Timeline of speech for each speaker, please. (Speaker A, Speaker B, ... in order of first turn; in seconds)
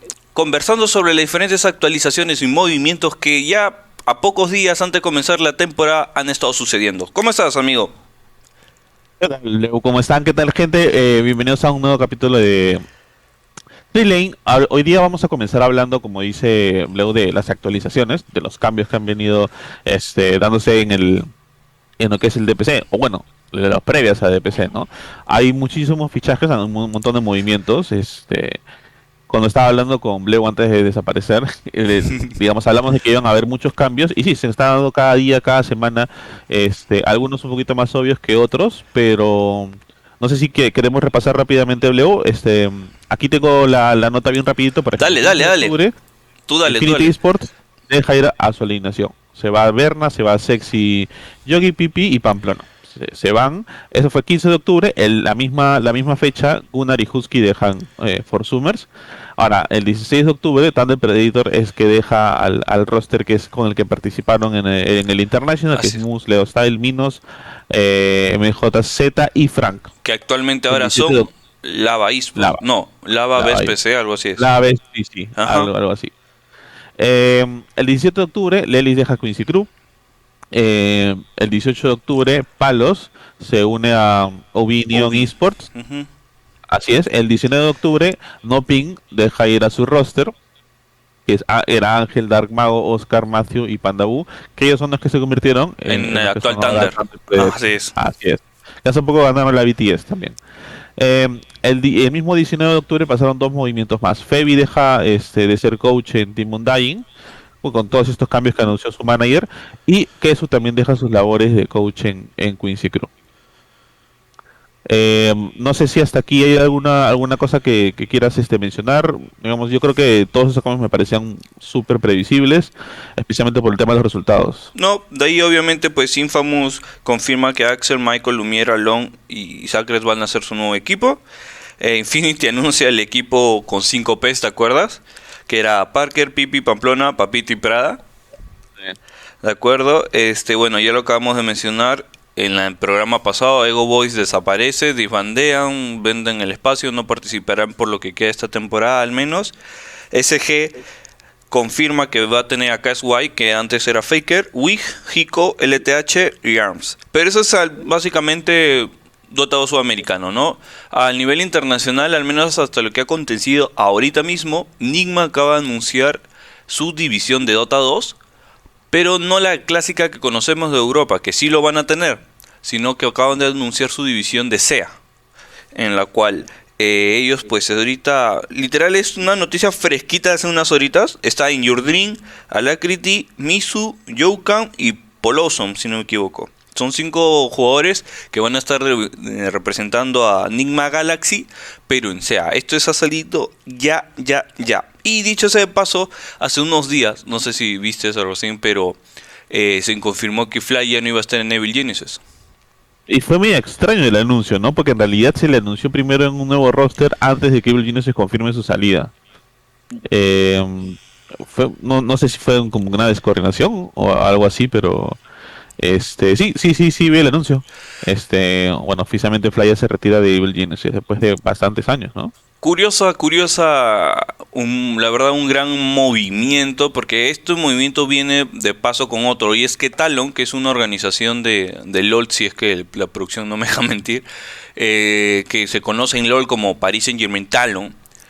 Speaker A: 0.3-7.9, 45.0-45.8, 46.5-47.1, 65.7-66.0, 70.0-74.5, 75.4-75.7, 84.9-86.1, 95.9-97.9, 124.7-131.2, 131.8-138.0, 139.4-149.6, 150.1-150.8, 151.5-168.2, 168.9-175.0, 175.8-202.2, 222.6-234.2, 234.8-237.9
Speaker B: 9.2-12.8, 13.9-21.3, 22.0-28.6, 29.3-45.9, 46.6-69.9, 70.7-71.3, 73.4-73.8, 74.4-76.1, 77.0-79.7, 80.5-85.7, 86.7-90.3, 91.3-100.4, 101.0-107.1, 107.6-113.1, 114.9-124.7, 203.1-209.1, 210.1-215.2, 215.8-222.3